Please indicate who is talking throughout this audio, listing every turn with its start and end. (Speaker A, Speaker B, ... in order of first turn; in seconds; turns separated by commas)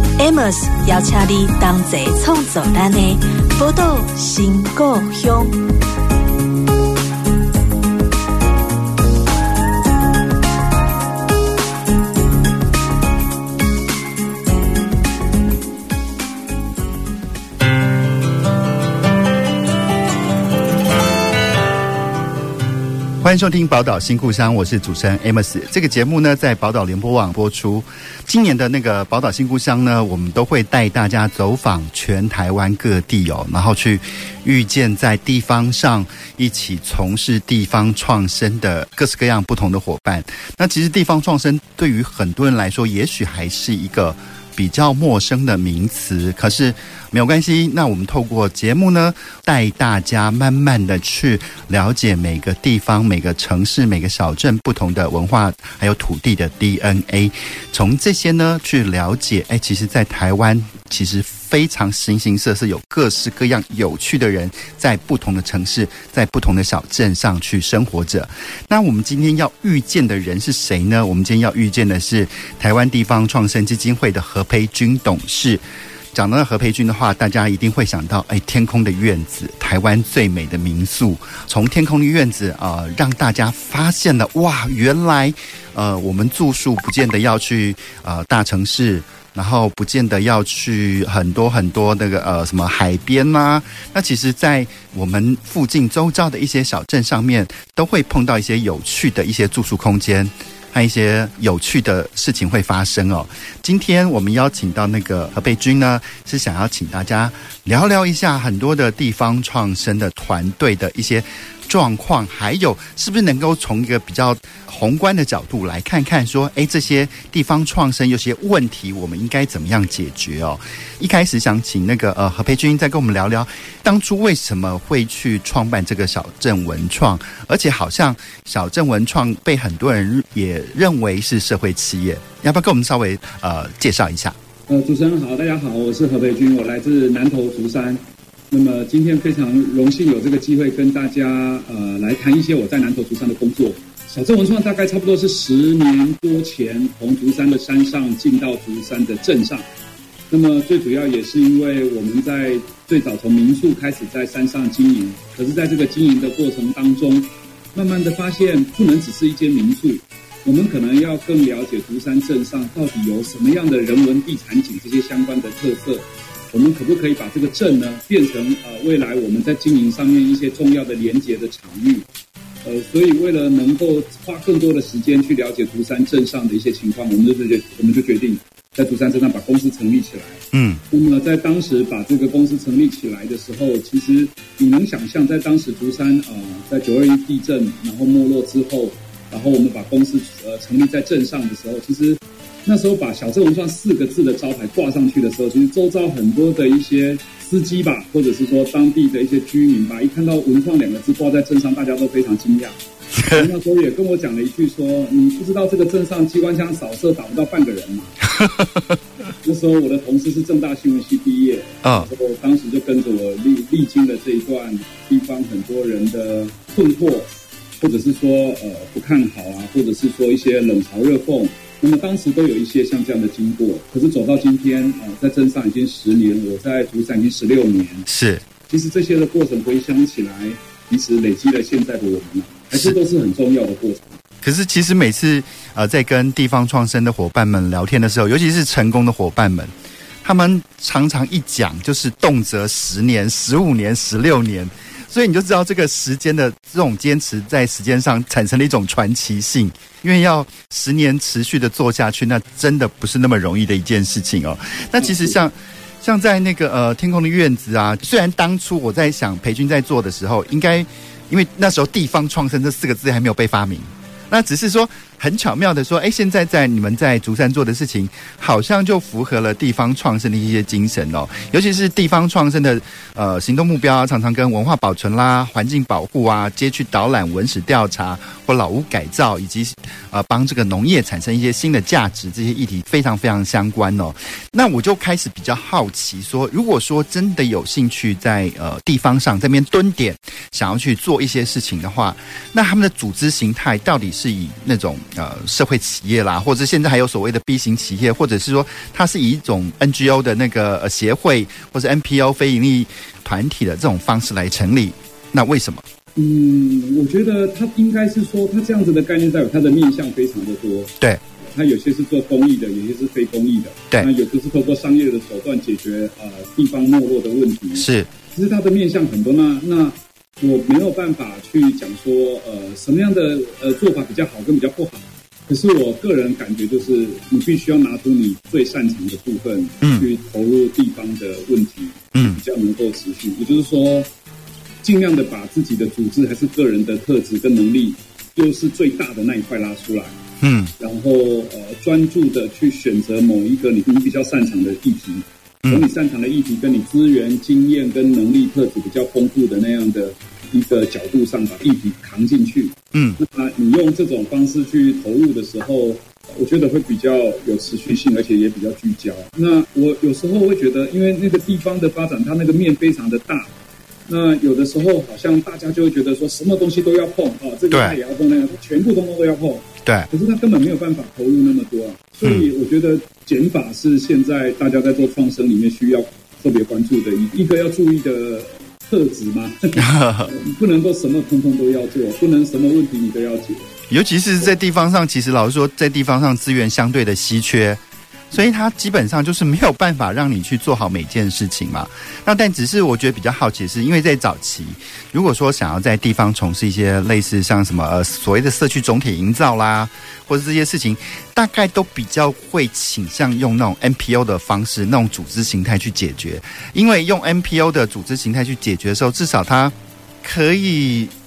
Speaker A: 0.2-5.6, Speaker B: 23.2-75.6, Speaker B: 76.1-134.3, Speaker C: 134.7-149.7, Speaker C: 150.3-172.1, Speaker C: 172.6-208.1, Speaker B: 180.5-180.8, Speaker B: 203.2-203.5, Speaker B: 208.3-209.0, Speaker C: 209.4-228.1, Speaker B: 211.8-212.1, Speaker B: 228.1-228.4, Speaker C: 228.7-234.2, Speaker B: 234.4-239.7, Speaker B: 240.2-305.8, Speaker C: 255.0-255.3, Speaker C: 306.1-310.9, Speaker C: 311.4-334.1, Speaker B: 317.8-318.1, Speaker B: 329.8-330.1, Speaker B: 332.1-332.4, Speaker C: 334.8-340.2, Speaker B: 340.4-340.7, Speaker C: 340.8-363.5, Speaker B: 352.9-353.2, Speaker C: 364.1-383.7, Speaker B: 372.2-372.5, Speaker B: 379.8-380.3, Speaker B: 383.9-411.1